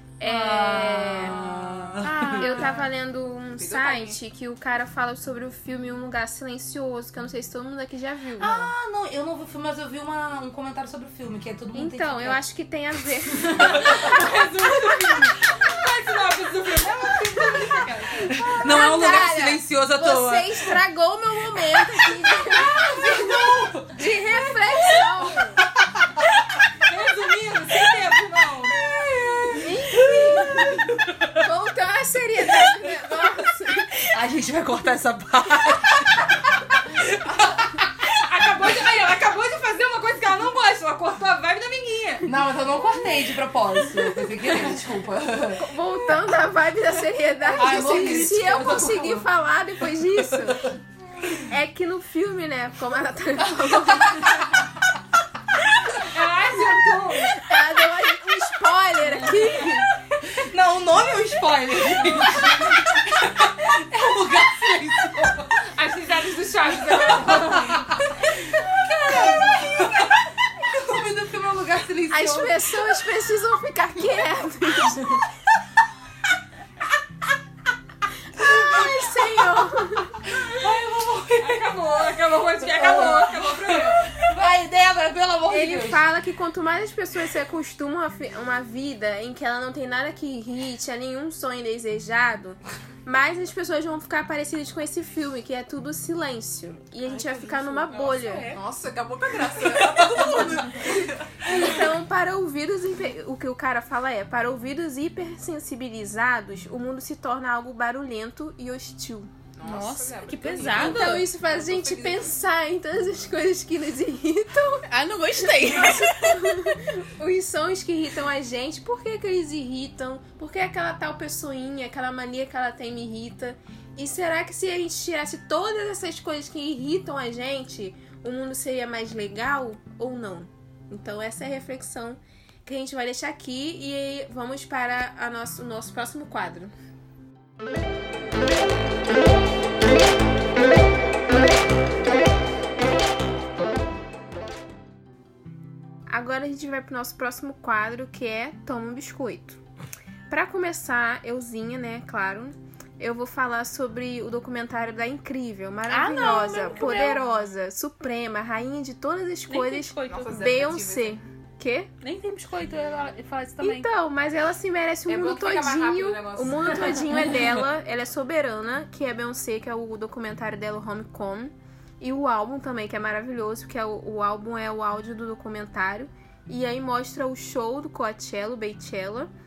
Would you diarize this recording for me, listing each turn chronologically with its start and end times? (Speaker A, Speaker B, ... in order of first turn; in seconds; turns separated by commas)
Speaker A: 0.2-1.5, Speaker B: 0.2-2.7, Speaker C: 2.0-2.8, Speaker A: 2.3-8.5, Speaker D: 3.5-4.2, Speaker B: 8.4-12.4, Speaker A: 11.7-14.9, Speaker E: 13.6-18.3, Speaker B: 18.2-20.8, Speaker A: 18.6-25.6, Speaker B: 21.7-25.2, Speaker E: 26.8-28.8, Speaker B: 28.8-31.4, Speaker A: 29.5-34.0, Speaker B: 32.5-33.2, Speaker B: 34.0-38.0, Speaker E: 38.1-42.3, Speaker B: 42.2-45.7, Speaker A: 45.5-50.7, Speaker B: 47.5-49.3, Speaker B: 50.3-50.6, Speaker A: 51.4-54.5, Speaker E: 56.0-57.4, Speaker A: 57.4-59.9, Speaker B: 60.2-65.6, Speaker E: 65.6-67.9, Speaker B: 66.7-73.0, Speaker A: 72.1-75.2, Speaker A: 78.3-80.2, Speaker B: 78.4-79.6, Speaker B: 80.2-81.7, Speaker E: 80.4-80.7, Speaker E: 81.4-84.2, Speaker B: 82.6-86.0, Speaker A: 85.5-98.5, Speaker C: 97.0-98.6, Speaker D: 98.5-101.5, Speaker B: 99.4-101.0, Speaker A: 100.8-109.3, Speaker D: 109.5-112.3, Speaker C: 109.6-111.3, Speaker A: 110.7-114.8, Speaker C: 114.9-116.8, Speaker A: 115.4-136.7, Speaker A: 146.1-149.6, Speaker A: 150.3-161.9, Speaker C: 155.9-157.2, Speaker C: 159.5-160.3, Speaker D: 160.1-161.2, Speaker C: 162.0-163.9, Speaker A: 163.6-179.3, Speaker D: 165.1-167.1